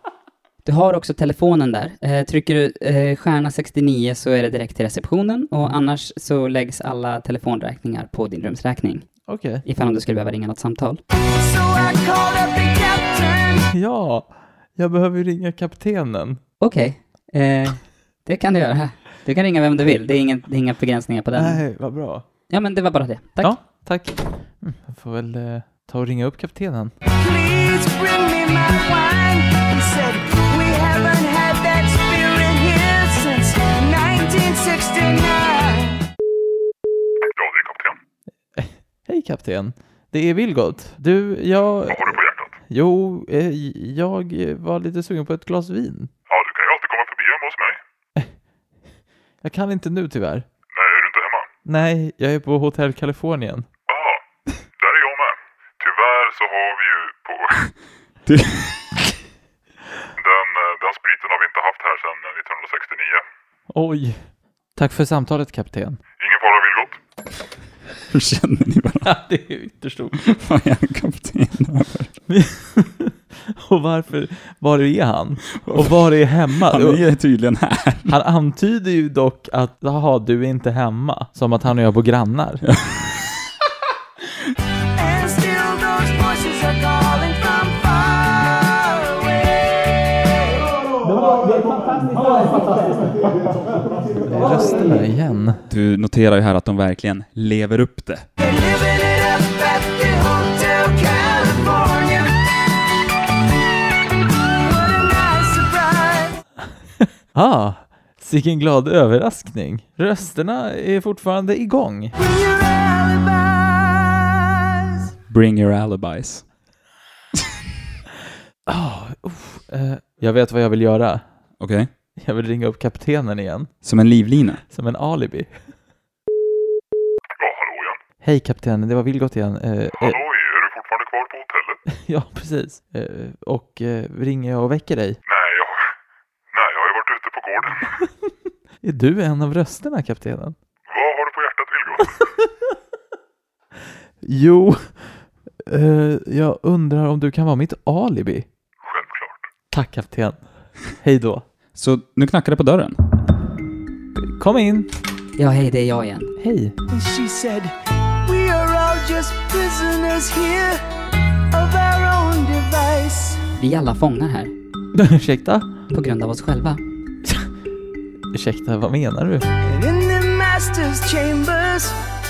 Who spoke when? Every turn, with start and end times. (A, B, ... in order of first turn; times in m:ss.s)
0:00.6-0:11.0 A
0:09.3-0:09.6 B
0:11.4-0:13.7 C
0:13.7-0:16.4 B
0:16.6-0:21.6 A
0:21.4-0:22.2 B
0:22.5-0:23.6 A
0:23.4-0:26.9 B
0:27.2-0:36.0 C
0:37.4-0:38.0 D
0:38.6-0:46.1 B
0:41.9-0:42.5 D
0:46.3-0:47.8 D
0:49.4-0:50.5 B
0:50.7-0:51.5 D
0:51.7-0:53.7 B
0:53.9-0:54.2 D
0:54.8-0:57.7 D
0:58.3-0:59.0 E
1:00.2-1:03.2 D
1:03.7-1:04.2 B
1:04.8-1:06.0 B
1:06.2-1:07.0 D
1:08.1-1:09.2 E
1:09.0-1:10.2 B
1:10.2-1:12.1 E
1:12.3-1:17.0 B
1:15.6-1:18.2 E
1:18.1-1:22.6 B
1:22.7-1:23.4 E
1:25.0-1:30.6 C
1:31.0-1:33.1 F
1:34.2-1:35.6 B
1:35.7-1:38.3 E
1:38.4-1:42.3 C
1:44.6-1:46.4 C
1:47.4-1:52.1 B
1:52.2-1:54.5 C
1:55.3-1:56.4 E
1:58.7-2:01.2 B
2:01.6-2:01.9 E
2:02.2-2:03.7 B
2:03.8-2:04.6 E
2:04.7-2:05.6 B
2:07.4-2:08.0 D
2:08.2-2:10.2 B
2:10.0-2:11.8 D
2:12.0-2:15.2 B
2:15.3-2:15.9 D
2:16.5-2:18.0 D
2:18.8-2:20.6 B
2:20.9-2:22.3 D
2:24.2-2:25.2 B
2:25.7-2:28.5 B
2:28.8-2:29.4 D
2:29.7-2:31.4 B
2:31.8-2:33.0 E
2:34.2-2:34.9 B
2:35.4-2:36.3 A
2:36.4-2:36.8 B
2:36.9-2:40.8 C
2:41.5-2:43.4 C
2:43.6-2:44.5 A
2:45.0-2:45.7 B
2:45.9-2:46.8 A
2:48.3-2:49.5 B
2:49.6-2:52.0 C